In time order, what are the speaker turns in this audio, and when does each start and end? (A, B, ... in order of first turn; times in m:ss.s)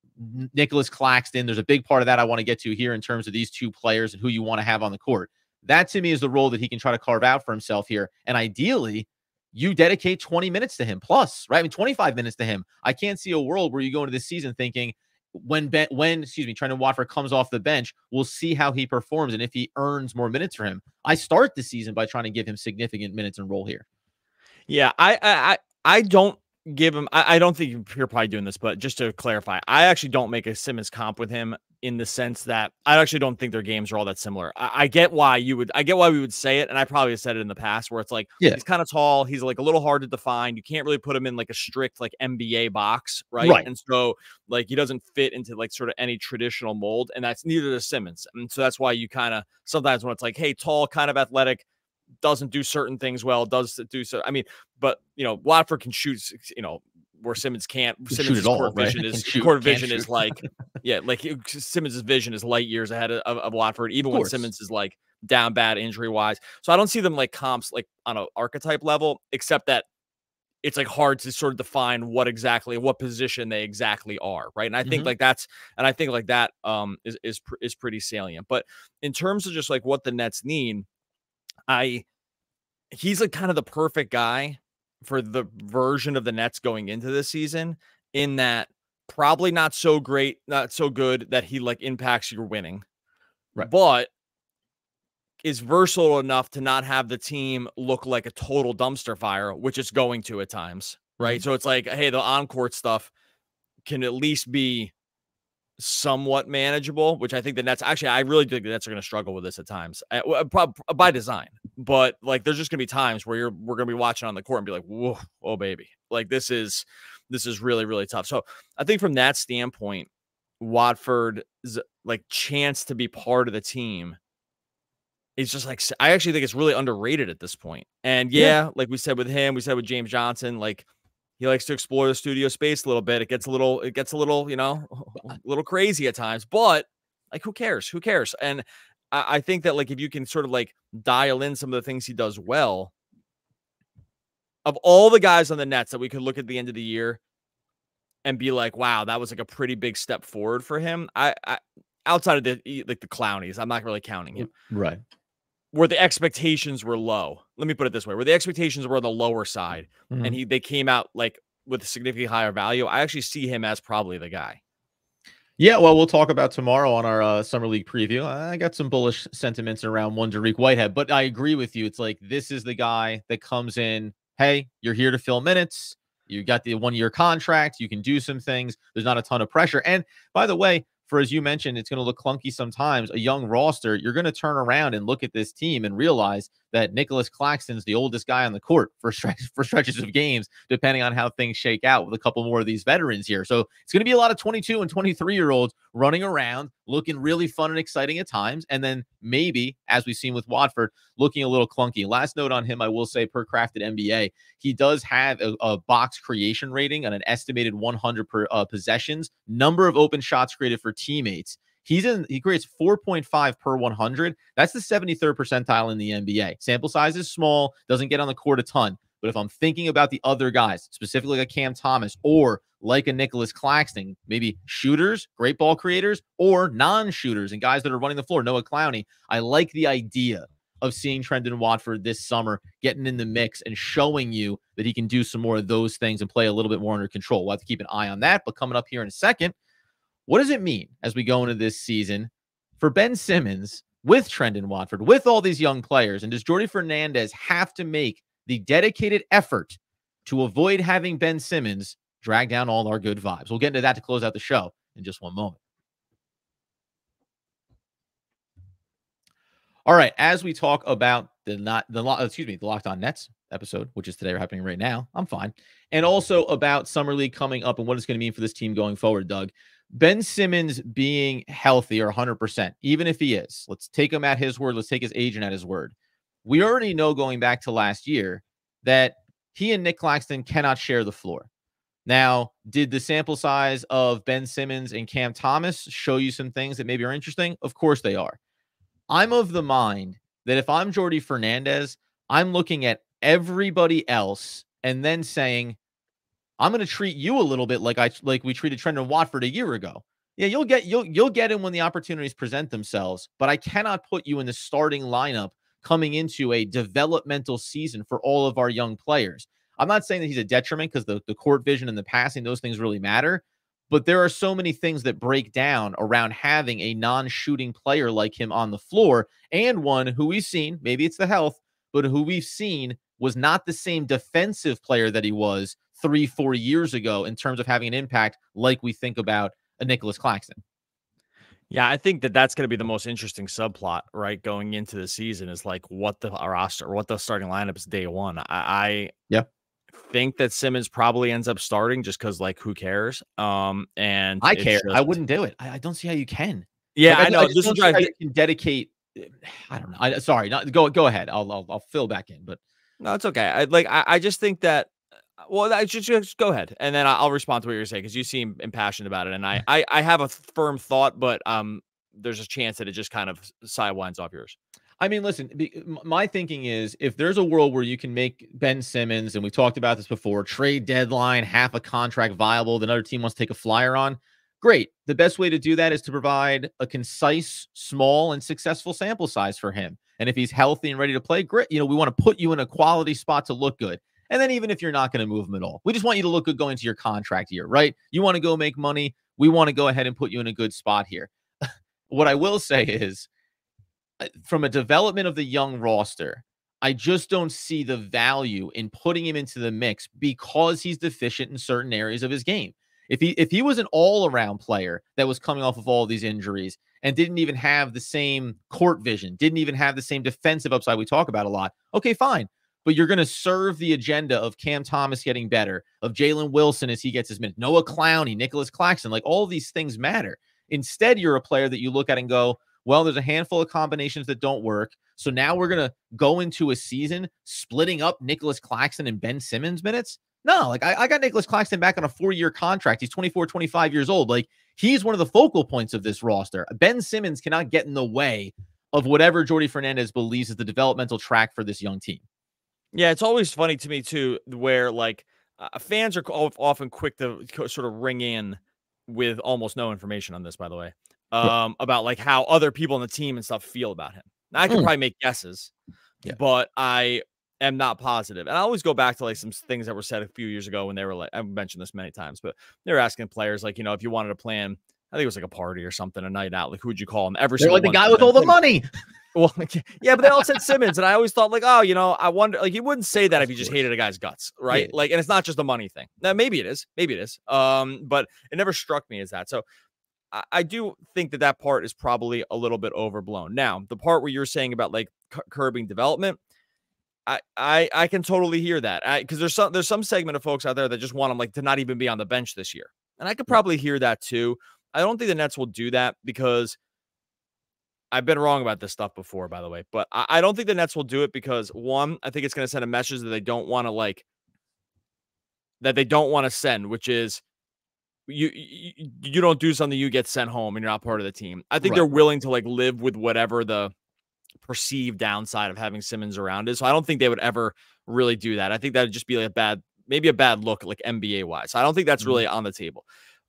0:00.2-0:23.8 A
0:24.7-0:51.6 B
0:43.4-0:43.7 A
0:52.2-1:09.9 B
0:58.1-1:00.4 A
1:04.1-1:04.4 A
1:10.6-1:20.9 B
1:14.8-1:15.1 A
1:21.7-1:22.0 B
1:22.9-1:32.8 B
1:33.6-1:34.1 B
1:35.4-1:43.1 B
1:43.9-1:44.9 B
1:45.8-2:00.1 B
2:00.6-2:04.2 B
2:05.4-2:10.9 B
2:11.4-2:22.9 B
2:24.6-2:27.2 B
2:28.2-2:34.5 B
2:34.4-2:35.0 A
2:35.7-2:44.6 B
2:40.1-2:40.4 A
2:45.6-3:59.5 A
4:00.3-4:15.6 A
4:19.9-4:35.9 A
4:36.4-4:41.5 A
4:42.1-4:48.4 A
4:49.1-4:55.8 A
4:56.6-5:30.6 A
5:31.7-5:39.1 B
5:40.0-5:45.2 B
5:44.4-5:52.6 A
5:47.0-5:48.1 B
5:53.0-6:04.6 B
6:05.0-6:31.3 A
6:32.1-6:33.3 A
6:34.2-7:22.2 A
7:22.9-7:35.7 B
7:36.3-7:48.6 B
7:47.6-7:48.9 A
7:49.4-7:59.6 B
8:00.3-8:06.4 B
8:07.3-8:16.8 B
8:18.1-8:24.2 B
8:25.8-8:27.4 B
8:28.3-8:33.9 B
8:31.8-8:32.1 A
8:34.6-8:43.0 B